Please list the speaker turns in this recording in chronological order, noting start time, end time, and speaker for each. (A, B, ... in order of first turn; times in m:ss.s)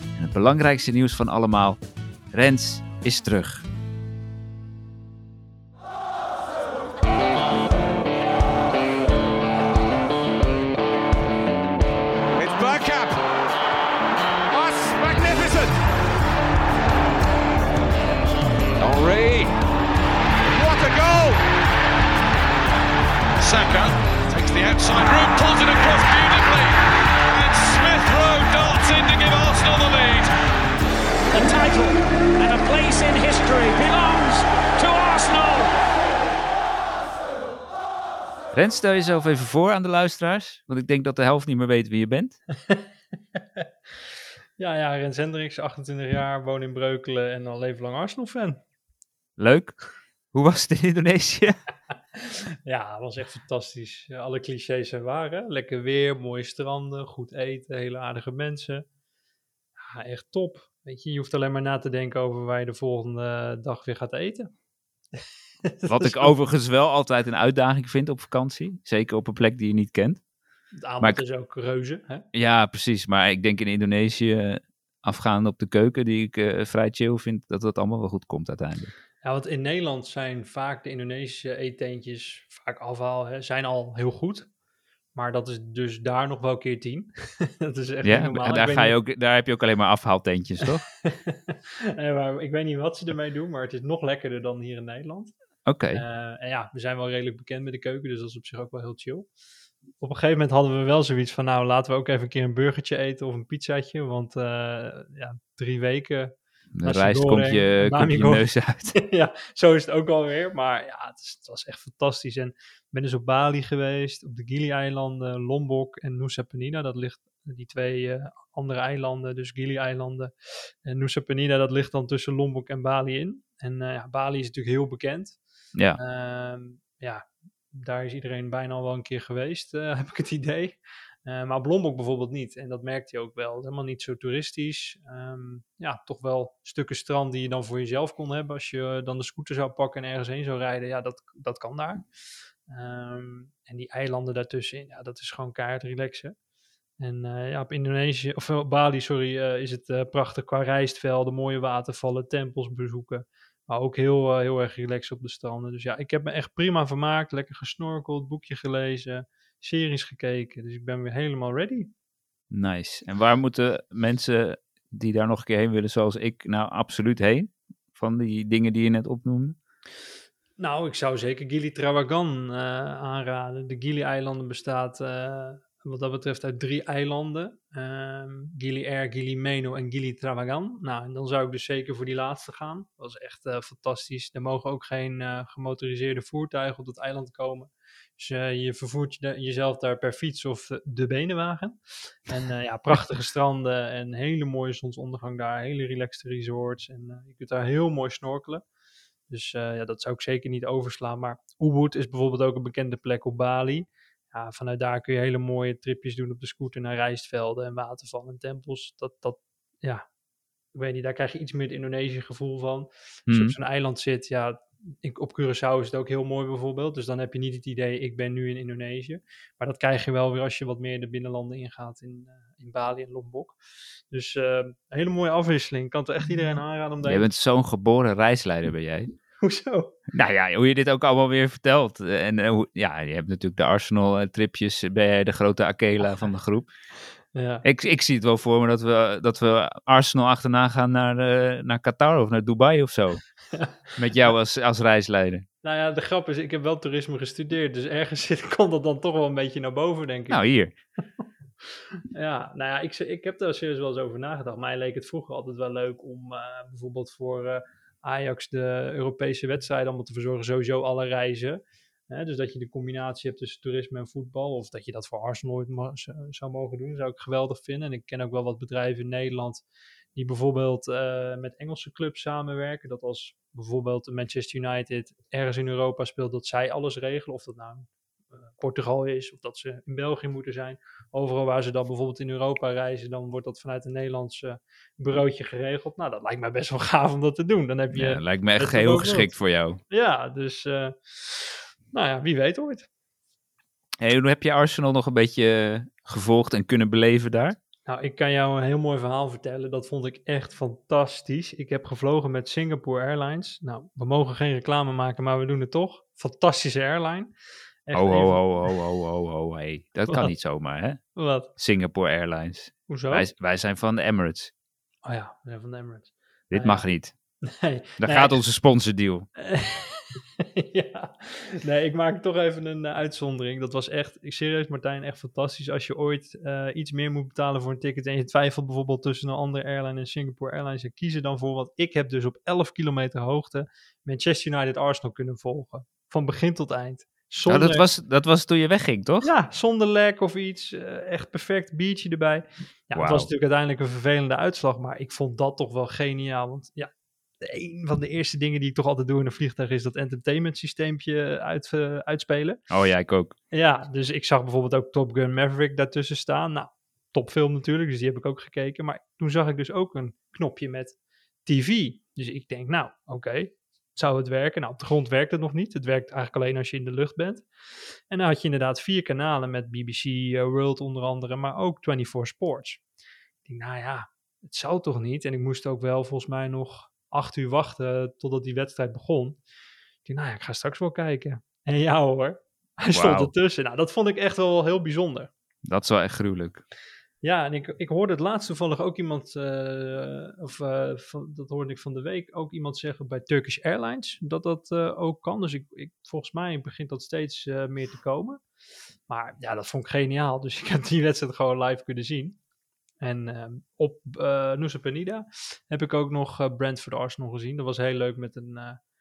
0:00.2-0:01.8 A
0:02.3-0:03.6 A
0:12.4-0:13.2 B
0:14.5-0:15.7 B
0:18.8-0:19.6 B
0:20.5-0:21.4 B
0:23.4-0:30.3 B
0:31.3-0:35.7 C
0:38.5-0:42.4 A
0:43.4-0:43.6 D
0:44.6-0:48.6 D
0:49.4-0:49.8 A
0:50.3-0:51.6 A
0:52.1-0:58.8 D
0:59.8-1:04.5 D
1:05.2-1:06.3 D
1:05.8-1:10.2 A
1:10.8-1:12.2 D
1:12.3-1:18.9 A
1:19.2-1:24.5 D
1:25.1-1:29.0 D
1:28.0-1:30.8 A
1:30.6-1:35.3 D
1:35.6-1:36.0 A
1:35.9-1:39.3 D
1:40.0-2:05.4 D
1:46.7-1:49.0 A
2:06.0-2:22.0 D
2:22.7-2:26.3 D
2:27.0-2:41.9 D
2:42.5-2:49.6 A
2:50.6-3:18.6 D
3:19.3-3:30.0 D
3:30.7-3:43.6 D
3:33.3-3:33.6 A
3:44.1-3:47.3 D
3:47.0-3:49.1 A
3:49.4-3:49.9 D
3:50.1-3:56.7 A
3:57.3-3:57.6 D
3:57.6-4:03.2 A
4:04.0-4:05.4 A
4:05.6-4:10.4 D
4:10.3-4:10.7 A
4:12.0-4:49.3 D
4:47.9-4:49.8 A
4:49.9-4:52.9 D
4:54.0-4:57.6 A
4:57.8-5:07.3 D
5:07.9-5:08.4 D
5:07.9-5:11.0 A
5:10.1-5:10.3 D
5:11.2-5:11.5 D
5:11.6-5:14.5 A
5:12.9-5:13.3 D
5:15.0-5:16.8 D
5:16.5-5:17.1 A
5:17.4-5:18.4 D
5:18.0-5:19.3 A
5:19.4-5:37.8 D
5:37.4-5:39.3 A
5:39.2-5:52.6 D
5:42.9-5:43.3 A
5:52.7-5:53.3 A
5:53.5-6:07.4 D
6:08.1-6:12.8 D
6:13.4-6:19.4 D
6:20.0-6:25.3 D
6:22.9-6:23.3 A
6:25.6-6:26.6 A
6:27.2-6:38.4 D
6:39.1-6:42.4 D
6:43.0-6:48.8 D